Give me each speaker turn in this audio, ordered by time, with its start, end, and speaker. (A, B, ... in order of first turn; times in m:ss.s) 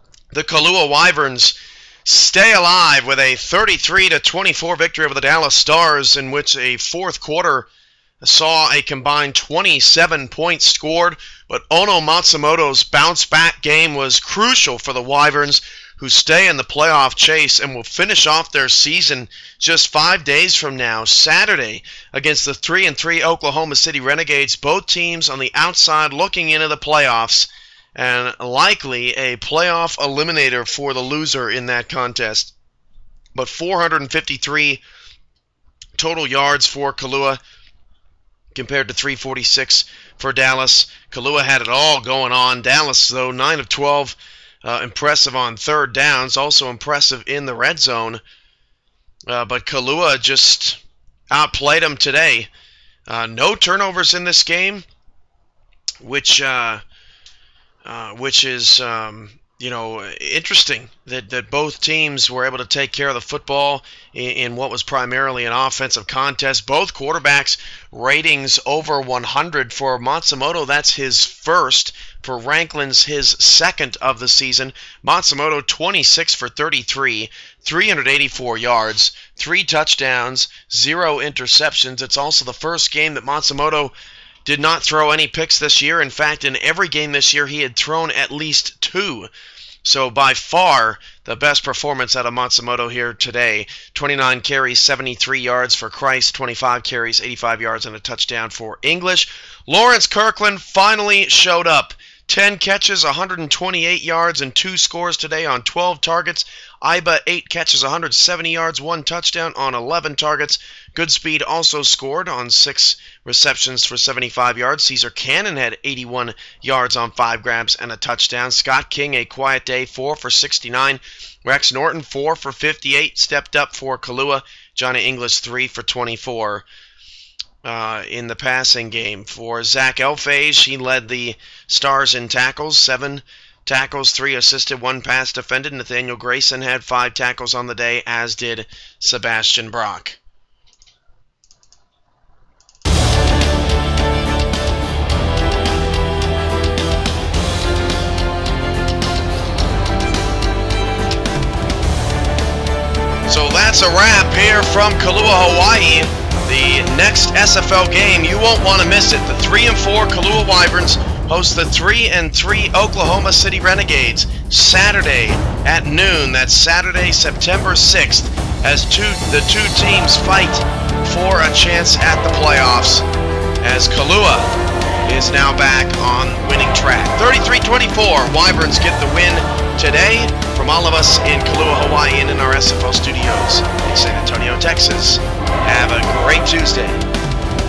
0:00.3-0:07.7 A
0:08.2-0:32.5 A
0:33.4-0:34.8 A
0:36.0-0:37.4 A
0:38.5-0:48.2 A
0:49.3-0:50.8 A
0:51.3-0:52.5 A
0:53.1-0:54.8 A
0:56.0-0:56.8 A
0:57.8-1:23.9 A
1:24.4-1:29.3 A
1:29.8-2:06.7 A
2:07.6-2:20.2 A
2:33.3-2:53.1 A
2:53.6-2:54.5 A
2:55.0-3:07.0 A